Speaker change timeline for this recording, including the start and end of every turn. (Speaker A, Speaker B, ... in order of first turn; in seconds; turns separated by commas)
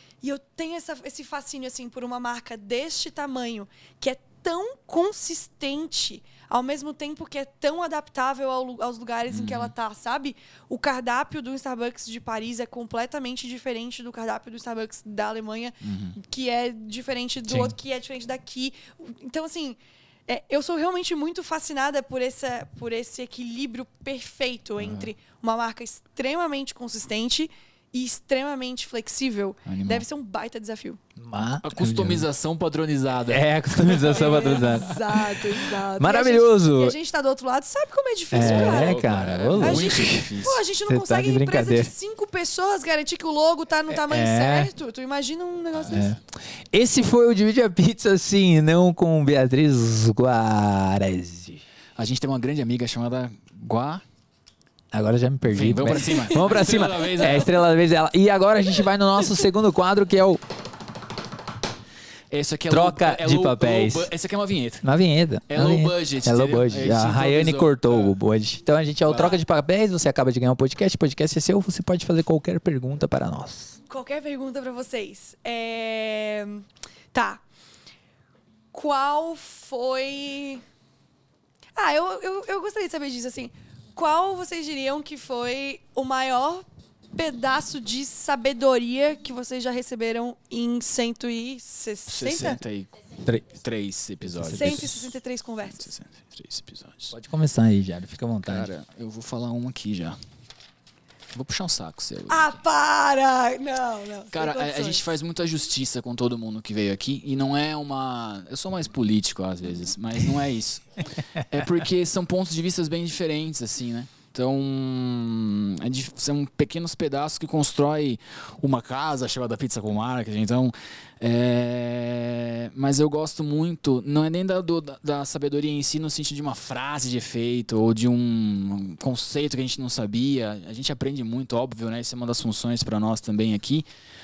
Speaker A: 0.2-31.0, Speaker B: 9.3-9.7, Speaker B: 15.8-16.2, Speaker C: 17.5-17.8, Speaker B: 24.8-25.1, Speaker B: 29.7-30.1, Speaker C: 31.2-32.2, Speaker B: 31.6-35.0, Speaker C: 33.3-37.0, Speaker A: 34.1-39.0, Speaker C: 38.3-40.3, Speaker B: 38.4-40.6, Speaker A: 39.6-46.1, Speaker C: 40.9-41.9, Speaker C: 43.9-44.7, Speaker C: 45.8-46.2, Speaker C: 46.7-51.6, Speaker B: 52.0-54.0, Speaker C: 54.9-60.4, Speaker B: 55.5-57.5, Speaker B: 62.3-64.8, Speaker C: 62.7-64.1, Speaker C: 64.8-73.8, Speaker B: 65.5-68.2, Speaker B: 69.1-69.4, Speaker A: 73.9-77.4, Speaker A: 78.7-80.6, Speaker A: 81.8-92.6, Speaker B: 92.1-92.9, Speaker B: 93.5-95.1, Speaker C: 94.3-94.9, Speaker A: 94.5-95.9, Speaker B: 95.7-97.2, Speaker C: 97.1-98.7, Speaker B: 98.5-100.2, Speaker B: 101.3-102.5, Speaker A: 102.3-105.1, Speaker B: 104.3-133.9